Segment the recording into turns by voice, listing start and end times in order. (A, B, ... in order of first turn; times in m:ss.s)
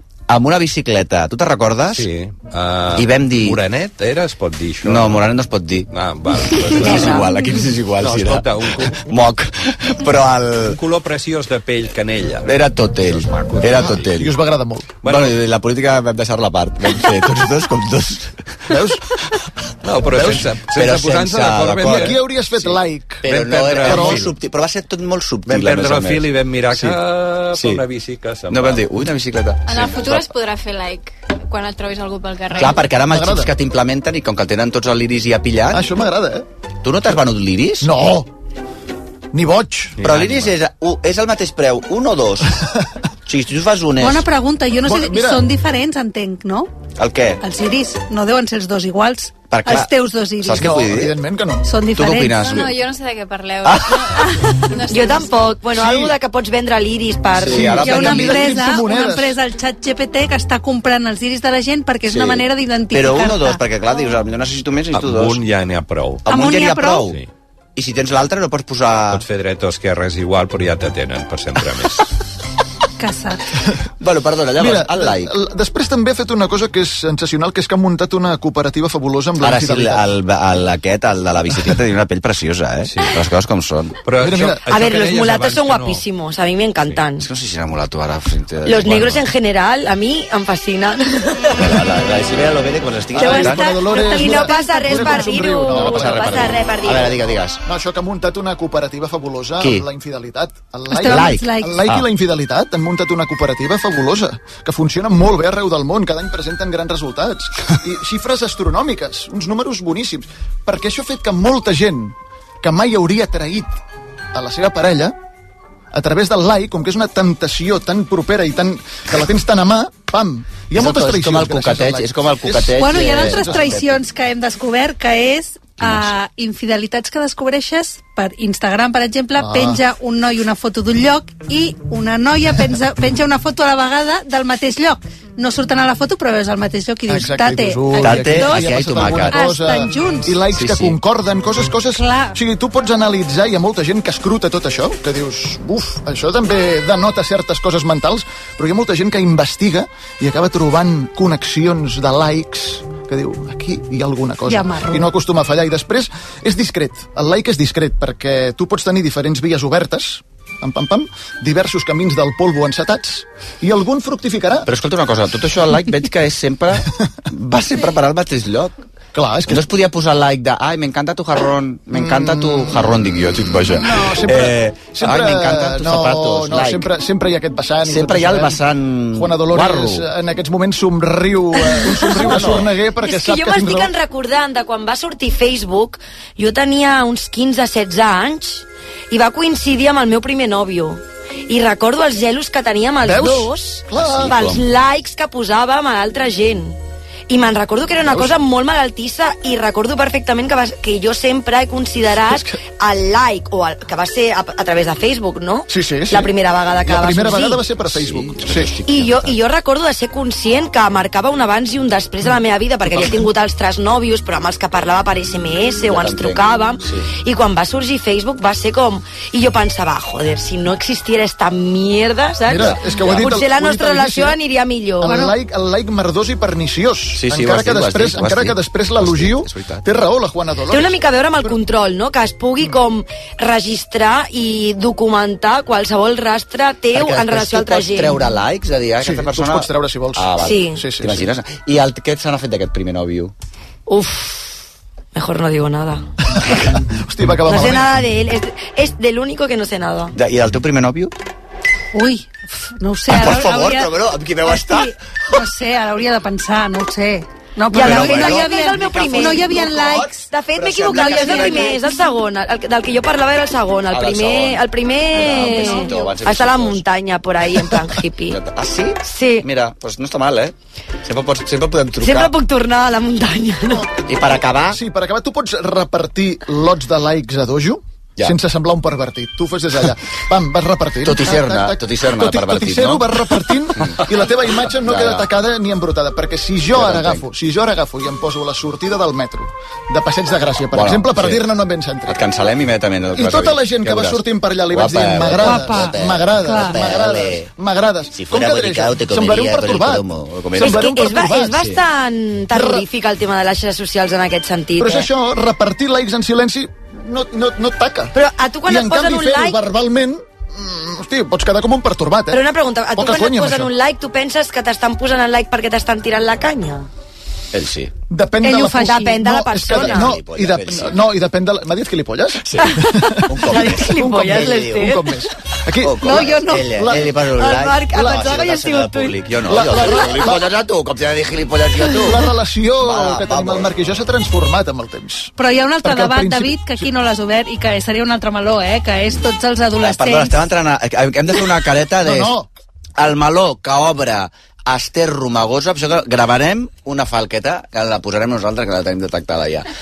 0:00.3-0:02.1 A
0:01.9-0:05.3 B
0:02.9-0:03.6 A
0:04.8-0:05.9 A
0:05.9-0:07.3 B
0:06.4-0:10.8 A
0:06.9-0:07.2 C
0:08.0-0:09.0 B
0:10.6-0:14.1 B
0:12.4-0:14.3 A
0:13.9-0:15.0 D
0:15.0-0:15.4 B
0:15.0-0:18.4 A
0:18.7-0:19.0 D
0:19.8-0:22.7 B
0:20.1-0:22.2 A
0:21.9-0:23.2 D
0:23.2-0:27.0 A
0:23.2-0:24.3 B
0:23.8-0:24.2 D
0:25.4-0:28.8 B
0:27.5-0:27.8 A
0:28.5-0:30.3 A
0:29.7-0:32.9 E
0:32.5-0:35.8 A
0:33.0-0:33.5 D
0:35.7-0:36.4 D
0:36.8-0:37.9 A
0:37.8-0:38.3 D
0:39.3-0:40.0 D
0:40.0-0:40.5 B
0:40.0-0:42.6 A
0:43.2-0:44.2 A
0:44.0-0:46.7 F
0:44.8-0:45.4 D
0:47.0-0:47.4 A
0:47.4-0:50.7 F
0:49.5-0:49.9 A
0:50.4-0:51.1 A
0:50.5-0:51.6 D
0:51.6-0:52.6 F
0:51.9-0:52.7 A
0:52.3-0:55.6 E
0:53.6-0:54.1 A
0:54.9-0:57.8 C
0:55.7-0:56.1 D
0:57.4-0:58.6 A
0:57.4-0:59.4 D
0:57.8-1:03.6 F
1:02.1-1:05.4 A
1:04.9-1:06.3 B
1:06.2-1:07.2 A
1:06.3-1:07.0 F
1:07.8-1:09.2 A
1:09.1-1:12.0 B
1:13.0-1:13.4 F
1:14.0-1:15.3 A
1:14.6-1:20.0 D
1:19.4-1:24.0 A
1:22.9-1:23.2 B
1:24.0-1:26.0 B
1:24.2-1:24.7 D
1:24.6-1:27.2 C
1:27.2-1:29.2 A
1:28.6-1:31.6 C
1:31.6-1:33.7 A
1:33.1-1:36.6 D
1:33.2-1:35.8 F
1:34.0-1:37.2 C
1:35.7-1:37.6 A
1:37.6-1:53.8 D
1:39.6-1:39.8 A
1:40.9-1:41.8 F
1:41.0-1:42.0 A
1:54.3-1:55.1 D
1:55.9-2:03.8 D
2:00.7-2:03.9 A
2:02.8-2:18.6 F
2:09.4-2:09.8 D
2:17.1-2:44.7 D
2:18.0-2:19.5 A
2:19.3-2:20.4 F
2:20.5-2:21.0 A
2:21.9-2:22.4 F
2:34.5-2:35.1 F
2:44.6-2:48.7 A
2:49.1-2:49.6 D
2:49.5-2:56.9 A
2:51.9-2:53.0 D
2:53.7-2:58.6 D
2:57.8-3:00.0 A
2:59.1-3:03.9 D
3:01.7-3:16.8 C
3:02.2-3:02.7 A
3:13.0-3:14.6 D
3:13.9-3:14.6 A
3:17.3-3:27.6 C
3:18.0-3:18.3 D
3:22.2-3:22.6 D
3:25.7-3:28.8 D
3:27.8-3:29.4 A
3:28.8-3:45.2 C
3:32.9-3:33.2 D
3:35.9-3:37.1 A
3:42.4-3:44.4 D
3:42.5-3:43.3 A
3:45.0-3:51.6 D
3:47.1-3:49.8 A
3:50.7-3:58.2 C
3:56.9-4:03.3 A
3:59.0-4:01.3 D
4:00.4-4:00.8 C
4:03.9-4:04.6 C
4:05.1-4:06.0 C
4:06.4-4:08.0 D
4:07.4-4:10.1 C
4:10.1-4:11.1 A
4:11.9-4:13.9 F
4:13.1-4:14.9 A
4:14.4-4:20.3 F
4:17.7-4:28.4 C
4:17.7-4:21.8 A
4:20.9-4:21.8 F
4:23.9-4:26.8 A
4:25.3-4:26.0 F
4:28.3-4:32.3 A
4:29.0-4:29.4 C
4:32.0-4:33.9 C
4:33.6-4:34.0 D
4:34.0-4:34.8 A
4:34.7-4:52.2 D
4:41.0-4:43.2 A
4:43.8-4:44.1 A
4:44.8-4:45.3 A
4:46.7-4:47.2 A
4:50.7-4:51.4 A
4:52.1-4:57.5 A
4:53.1-5:00.0 D
4:55.4-4:56.8 F
4:58.1-5:00.9 A
5:00.5-5:01.7 D
5:00.6-5:05.1 C
5:02.5-5:02.8 D
5:04.8-5:08.1 D
5:08.1-5:09.6 C
5:08.6-5:12.4 D
5:12.3-5:16.9 C
5:12.9-5:13.7 D
5:17.5-5:17.9 A
5:18.1-5:27.2 D
5:18.4-5:19.2 F
5:18.7-5:20.1 C
5:19.6-5:21.0 A
5:22.4-5:24.9 A
5:23.5-5:25.0 C
5:25.8-5:33.7 A
5:26.0-5:26.7 F
5:27.3-5:29.2 C
5:27.9-5:28.2 D
5:29.4-5:30.5 D
5:32.0-5:35.3 D
5:35.4-5:40.3 F
5:35.8-5:36.8 D
5:39.8-5:42.3 A
5:42.0-5:42.5 D
5:43.0-5:49.7 A